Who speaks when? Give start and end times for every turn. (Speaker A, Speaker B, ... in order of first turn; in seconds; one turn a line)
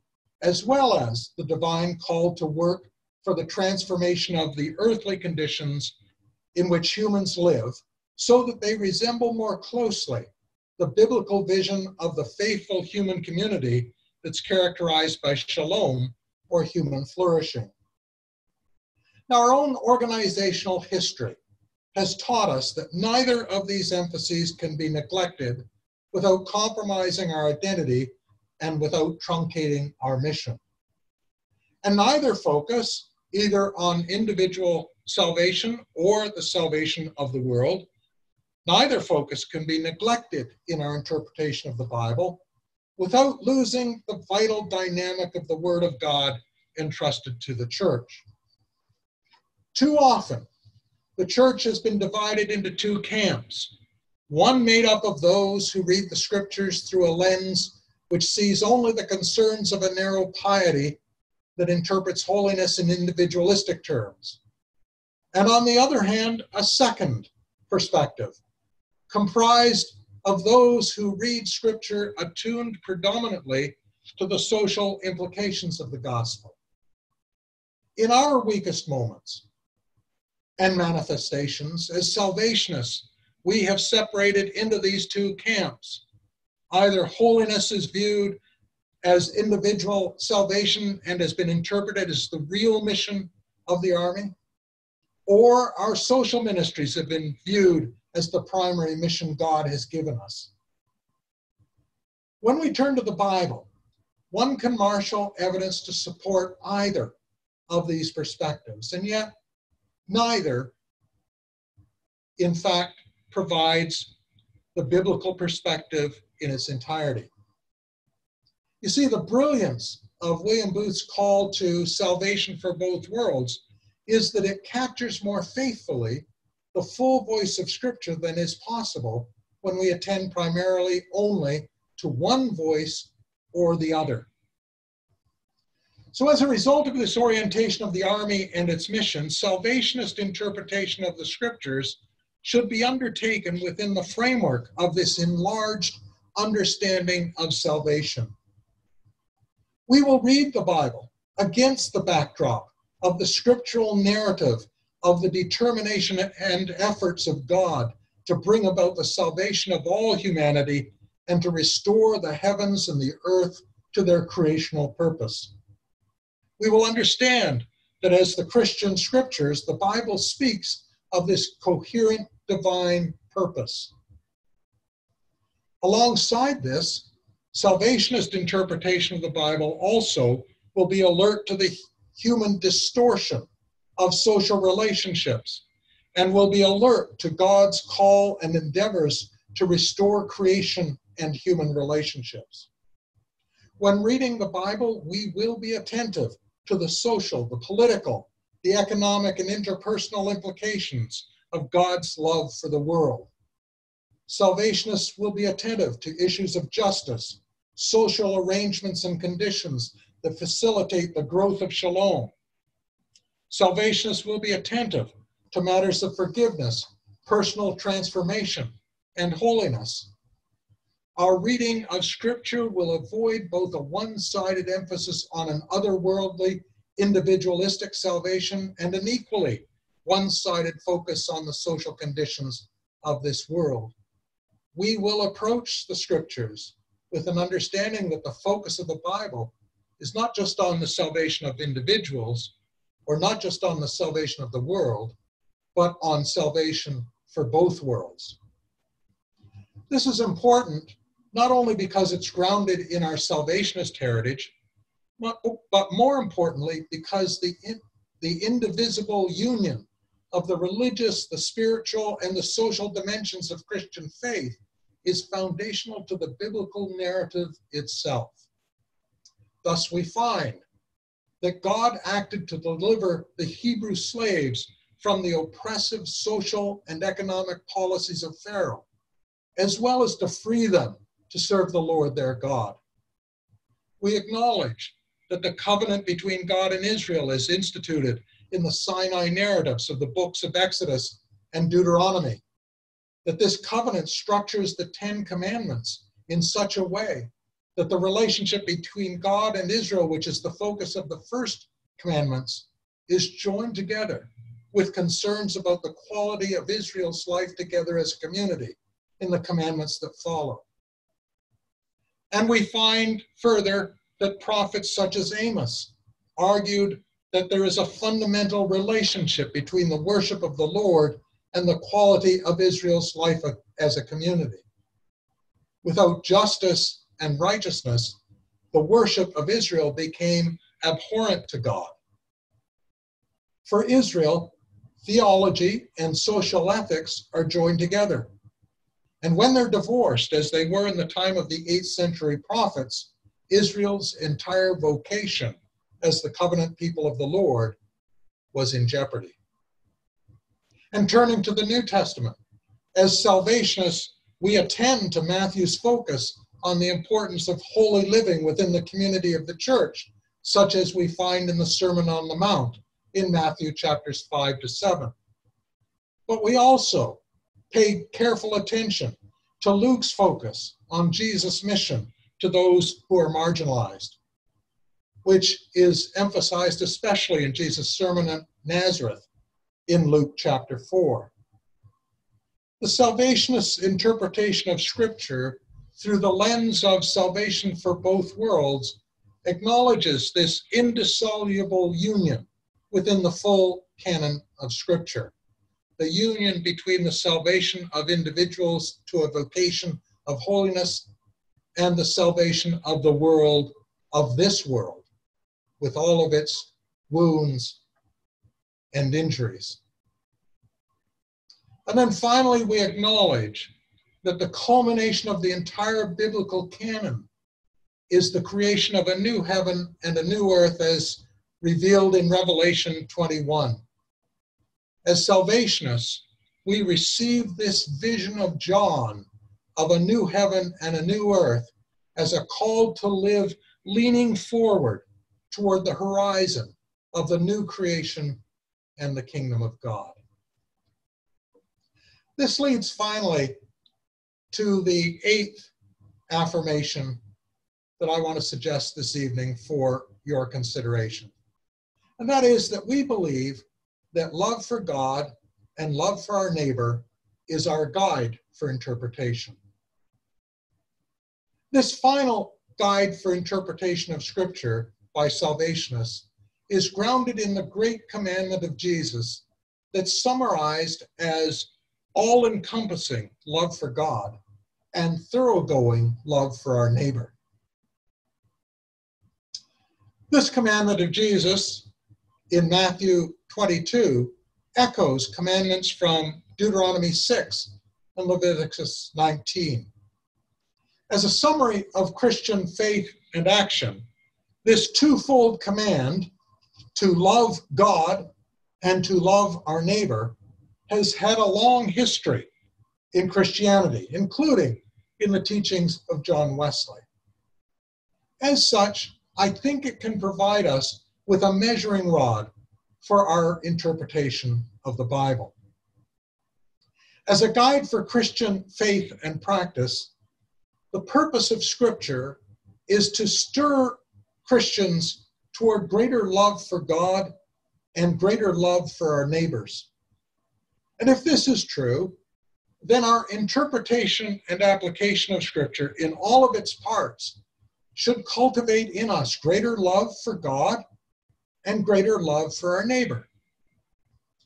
Speaker A: 0.4-5.9
Speaker A: 6.5-17.7
Speaker A: 19.3-21.4
Speaker A: 21.9-30.6
Speaker A: 31.8-37.9
Speaker A: 38.6-42.4
Speaker A: 43.0-48.2
Speaker A: 49.7-50.5
Speaker A: 51.2-53.7
Speaker A: 54.3-61.0
Speaker A: 61.5-64.4
Speaker A: 65.3-68.4
Speaker A: 69.1-76.5
Speaker A: 78.0-79.4
Speaker A: 80.6-86.0
Speaker A: 86.7-88.4
Speaker A: 89.0-94.3
Speaker A: 95.2-100.5
Speaker A: 102.4-103.7
Speaker A: 104.3-107.1
Speaker A: 107.7-109.3
Speaker A: 110.1-110.7
Speaker A: 112.4-114.1
Speaker A: 114.7-117.3
Speaker A: 118.8-134.3
Speaker A: 136.1-148.3
Speaker A: 149.9-165.5
Speaker A: 166.6-173.9
Speaker A: 175.8-185.6
Speaker A: 186.1-192.7
Speaker A: 193.8-203.3
Speaker A: 204.3-212.3
Speaker A: 213.5-220.1
Speaker A: 221.2-233.9
Speaker A: 234.7-242.5
Speaker A: 243.1-245.1
Speaker A: 245.7-248.4
Speaker A: 249.9-254.5
Speaker A: 255.2-268.4
Speaker A: 269.6-270.6
Speaker A: 271.4-278.9
Speaker A: 279.6-282.8
Speaker A: 284.0-292.4
Speaker A: 293.2-310.6
Speaker A: 312.3-324.6
Speaker A: 325.8-328.2
Speaker A: 328.7-331.9
Speaker A: 333.6-338.3
Speaker A: 339.2-347.8
Speaker A: 348.5-349.4
Speaker A: 350.9-352.4
Speaker A: 352.9-365.1
Speaker A: 366.3-374.2
Speaker A: 375.2-379.3
Speaker A: 379.9-381.3
Speaker A: 382.8-395.3
Speaker A: 396.0-401.1
Speaker A: 401.8-405.1
Speaker A: 405.8-407.8
Speaker A: 408.9-409.8
Speaker A: 411.9-417.3
Speaker A: 418.1-423.8
Speaker A: 425.0-438.4
Speaker A: 439.0-440.1
Speaker A: 442.4-443.5
Speaker A: 444.5-445.7
Speaker A: 446.3-447.2
Speaker A: 448.0-451.3
Speaker A: 452.2-459.6
Speaker A: 461.7-474.4
Speaker A: 474.9-477.3
Speaker A: 480.3-481.9
Speaker A: 482.5-489.9
Speaker A: 491.1-494.0
Speaker A: 494.6-496.3
Speaker A: 496.9-498.3
Speaker A: 498.8-500.4
Speaker A: 500.9-502.5
Speaker A: 503.1-507.0
Speaker A: 508.4-512.5
Speaker A: 513.0-515.5
Speaker A: 517.3-520.1
Speaker A: 520.9-527.3
Speaker A: 527.9-529.9
Speaker A: 531.0-532.1
Speaker A: 532.8-537.4
Speaker A: 537.9-540.8
Speaker A: 541.6-543.3